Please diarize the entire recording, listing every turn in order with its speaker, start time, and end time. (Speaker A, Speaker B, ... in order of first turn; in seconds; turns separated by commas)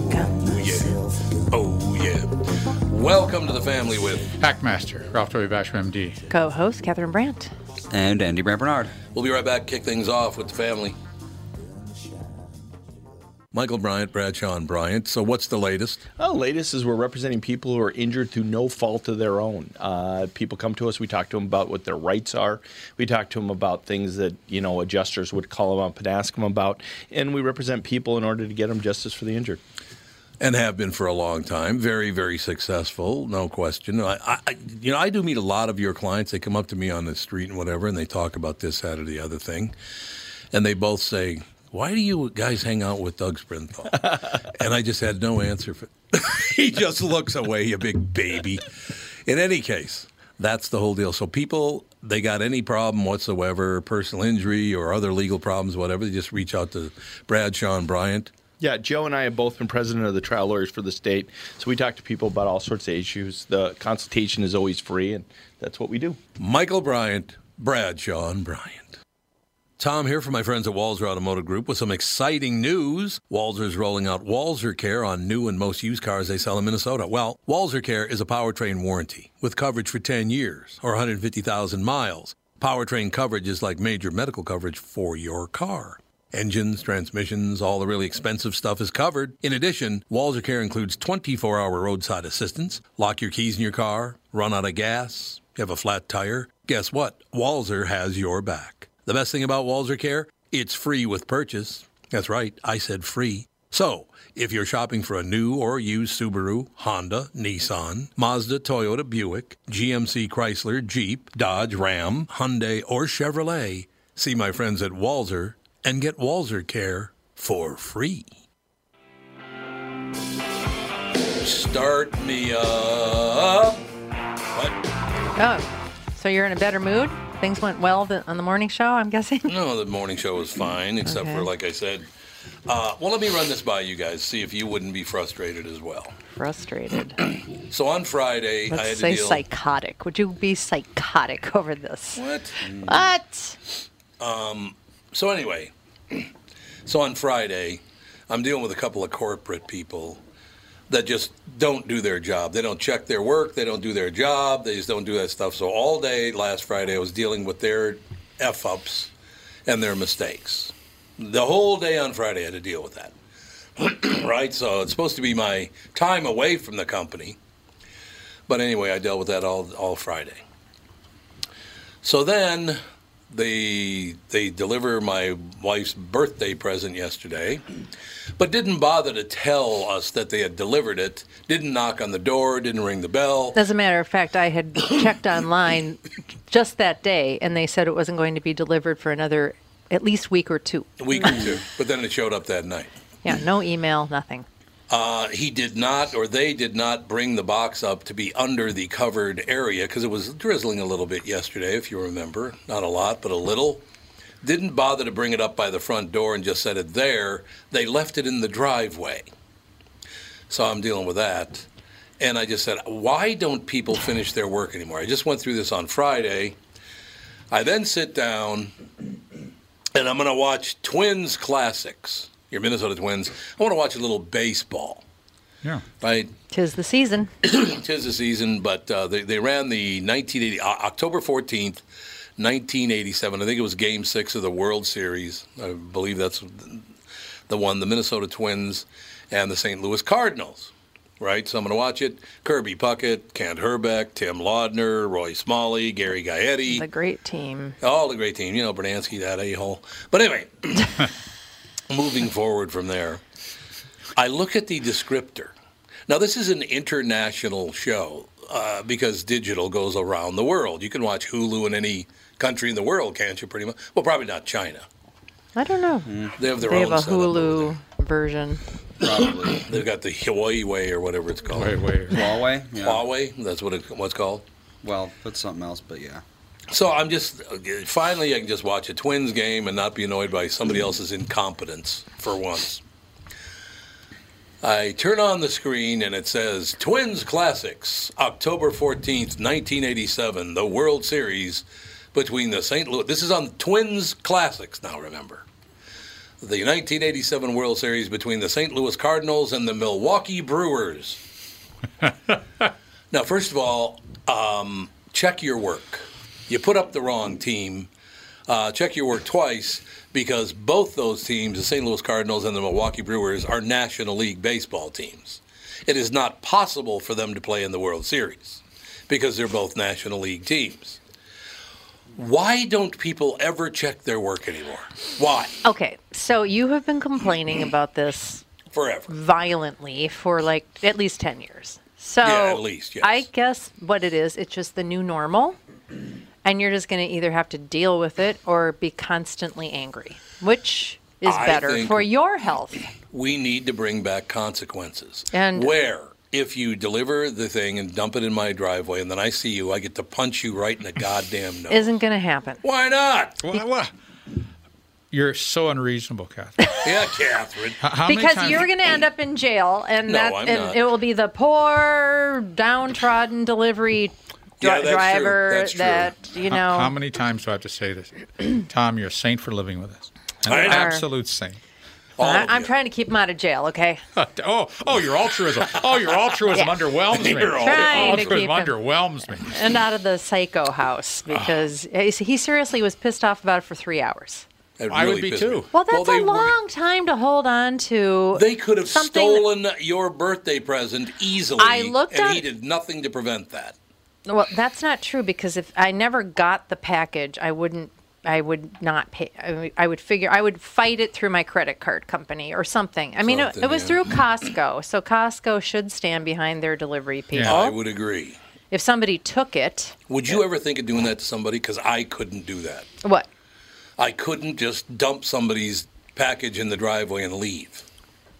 Speaker A: 0.1-0.4, Speaker B: 0.3-4.3, Speaker C: 4.4-6.2, Speaker A: 6.3-7.5, Speaker D: 7.9-9.0, Speaker B: 9.1-11.0, Speaker B: 13.5-16.0, Speaker E: 16.2-29.6, Speaker B: 30.4-39.8, Speaker B: 40.5-48.7, Speaker B: 49.3-58.3, Speaker E: 58.6-66.2, Speaker B: 66.4-69.0, Speaker B: 69.8-118.3, Speaker B: 121.4-123.8, Speaker B: 124.5-124.8, Speaker A: 125.4-129.5, Speaker B: 129.5-132.1, Speaker A: 131.0-131.5, Speaker B: 132.7-136.1, Speaker A: 136.3-137.2, Speaker B: 137.7-139.4, Speaker A: 138.7-143.6, Speaker B: 142.2-142.6, Speaker D: 142.6-143.0, Speaker B: 144.2-146.3, Speaker B: 146.8-150.2, Speaker B: 150.9-159.1, Speaker B: 159.7-163.1, Speaker B: 163.8-167.4, Speaker B: 168.5-170.4, Speaker B: 172.0-177.6, Speaker B: 178.4-183.6, Speaker A: 183.5-191.5, Speaker B: 191.0-192.9, Speaker A: 193.2-194.5, Speaker B: 194.9-203.8, Speaker B: 204.4-209.3, Speaker B: 210.5-211.7, Speaker B: 212.2-216.6, Speaker B: 217.5-218.7, Speaker B: 219.9-225.0, Speaker B: 226.0-226.3, Speaker A: 226.5-227.3, Speaker B: 227.4-231.8, Speaker B: 232.4-236.9, Speaker B: 237.5-246.9, Speaker A: 246.7-247.8, Speaker B: 247.8-251.1, Speaker B: 251.9-253.2, Speaker B: 254.2-255.5, Speaker B: 256.1-264.9, Speaker A: 265.6-268.6, Speaker D: 266.1-266.4, Speaker B: 266.4-267.7, Speaker D: 269.0-269.7, Speaker B: 269.5-271.9, Speaker C: 271.5-272.3, Speaker D: 272.1-273.0, Speaker B: 272.8-274.4, Speaker D: 274.8-276.2, Speaker B: 276.7-282.8, Speaker B: 284.6-295.4, Speaker B: 296.4-301.2, Speaker B: 303.1-307.9, Speaker B: 308.5-321.0, Speaker B: 322.2-325.6, Speaker A: 325.6-328.5, Speaker B: 328.7-329.1, Speaker A: 329.1-335.6, Speaker B: 332.2-333.3, Speaker A: 336.4-342.9, Speaker B: 341.2-342.1, Speaker B: 343.1-351.9, Speaker A: 345.3-345.7, Speaker A: 351.7-352.6, Speaker B: 352.6-353.5, Speaker C: 353.4-353.9, Speaker C: 355.1-356.7, Speaker B: 356.8-357.8, Speaker C: 357.8-358.7, Speaker A: 358.1-366.9, Speaker B: 360.1-360.9, Speaker B: 364.6-366.1, Speaker C: 366.5-371.6, Speaker B: 370.5-371.0, Speaker A: 370.6-371.0, Speaker B: 372.2-372.7, Speaker A: 372.2-374.0, Speaker C: 374.2-379.5, Speaker B: 377.1-378.5, Speaker A: 377.6-378.8, Speaker A: 379.4-384.5, Speaker B: 384.8-386.6, Speaker C: 384.9-385.7, Speaker A: 385.7-389.5, Speaker B: 388.4-393.8, Speaker A: 391.6-392.5, Speaker A: 394.3-407.8, Speaker B: 403.2-404.2, Speaker C: 407.3-407.6, Speaker B: 407.5-408.4, Speaker A: 408.7-410.0, Speaker B: 410.1-412.9, Speaker A: 413.0-413.3, Speaker B: 414.0-417.9